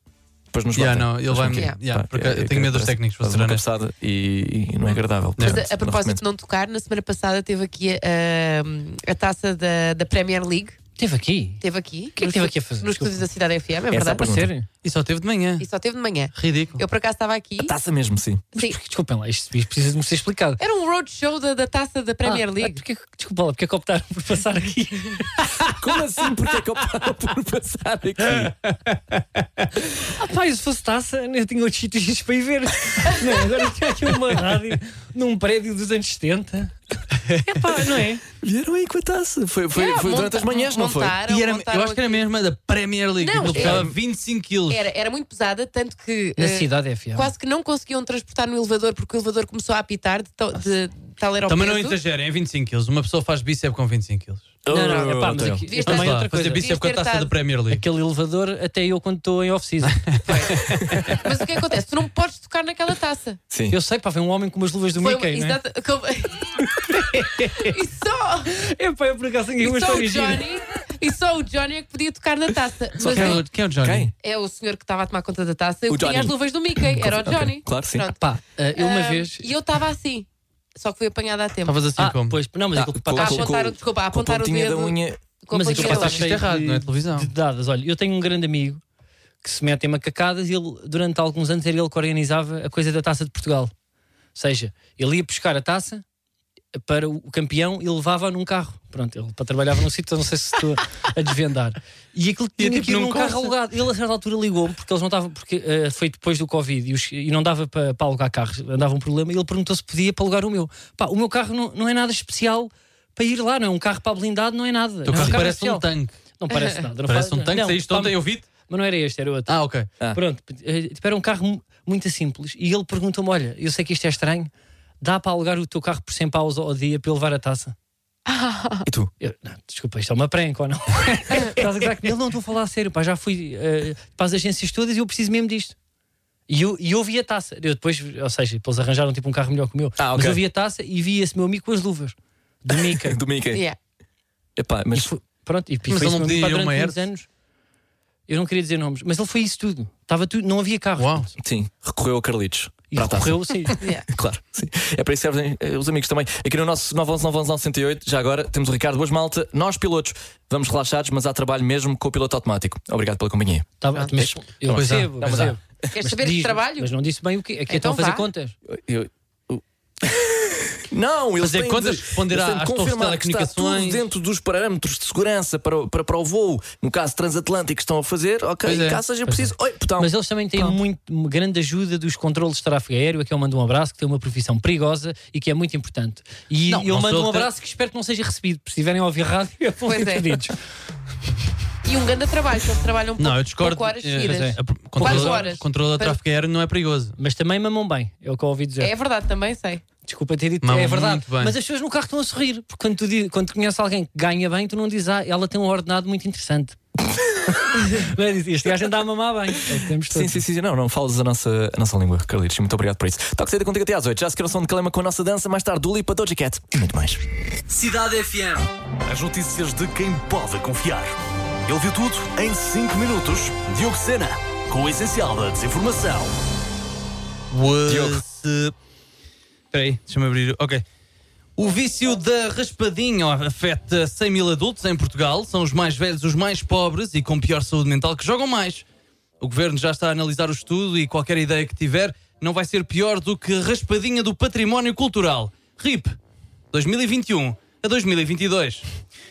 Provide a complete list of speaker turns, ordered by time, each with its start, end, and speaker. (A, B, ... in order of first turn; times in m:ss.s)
0:00.5-0:06.2 A
0:00.8-0:03.6 B
0:05.4-0:05.6 B
0:05.4-0:10.8 C
0:11.0-0:11.6 D
0:11.6-0:14.3 C
0:12.2-0:13.2 D
0:13.9-0:14.5 A
0:14.2-0:14.7 D
0:14.8-0:15.7 B
0:15.6-0:17.7 C
0:16.4-0:16.8 B
0:17.6-0:18.5 A
0:18.6-0:20.6 D
0:20.6-0:22.8 C
0:22.2-0:25.5 D
0:25.6-0:28.5 A
0:30.0-0:38.2 D
0:38.4-0:41.2 A
0:39.7-0:42.2 C
0:41.3-0:44.9 B
0:43.2-0:43.9 C
0:43.5-0:44.0 A
0:44.7-0:52.0 C
0:46.4-0:47.3 D
0:51.5-0:54.6 B
0:54.6-0:55.7 A
0:54.7-0:56.7 D
0:54.7-0:57.3 C
0:55.8-0:57.8 B
0:57.7-1:01.2 D
0:59.9-1:00.2 B
1:00.2-1:03.4 C
1:03.7-1:05.6 D
1:05.0-1:06.8 C
1:06.8-1:07.7 D
1:07.4-1:08.5 C
1:08.5-1:10.5 D
1:09.6-1:13.4 C
1:13.0-1:14.1 A
1:13.0-1:14.1 B
1:14.2-1:18.2 C
1:15.9-1:18.1 A
1:18.2-1:19.5 D
1:18.8-1:21.8 C
1:21.7-1:22.4 B
1:22.0-1:23.6 D
1:22.8-1:25.2 A
1:23.2-1:26.3 C
1:25.5-1:28.8 D
1:25.7-1:27.3 B
1:29.4-1:33.7 D
1:34.4-1:36.0 D
1:36.7-1:55.9 D
1:42.6-1:43.5 B
1:55.1-1:56.2 B
1:56.4-1:59.6 D
1:57.1-1:58.5 B
1:59.5-1:59.9 B
2:00.1-2:07.8 D
2:08.3-2:08.9 C
2:08.9-2:09.1 A
2:09.2-2:15.8 D
2:16.5-2:23.2 D
2:20.0-2:20.4 A
2:23.0-2:23.6 A
2:24.6-2:25.1 A
2:24.9-2:27.3 D
2:25.9-2:27.0 B
2:28.3-2:31.3 D
2:31.0-2:31.3 B
2:31.4-2:44.6 A
2:32.9-2:33.8 D
2:33.8-2:34.1 C
2:43.8-2:48.6 D
2:44.6-2:45.6 B
2:45.2-2:45.6 A
2:45.9-2:46.9 C
2:47.7-2:48.3 C
2:48.7-3:00.1 A
2:51.4-2:54.1 B
2:58.6-2:59.0 B
2:59.3-3:10.6 D
3:06.7-3:07.5 B
3:09.9-3:10.4 C
3:11.8-3:16.2 C
3:13.2-3:17.2 B
3:14.2-3:15.6 D
3:17.2-3:18.9 D
3:18.8-3:19.8 C
3:20.1-3:26.8 D
3:20.6-3:21.6 B
3:27.5-3:30.4 D
3:30.1-3:37.3 A
3:37.7-3:46.4 E
3:47.5-3:48.7 B
3:47.9-3:48.2 A
3:49.7-3:50.8 B
3:51.6-3:58.8 B
3:59.4-4:06.2 B
4:06.7-4:08.8 B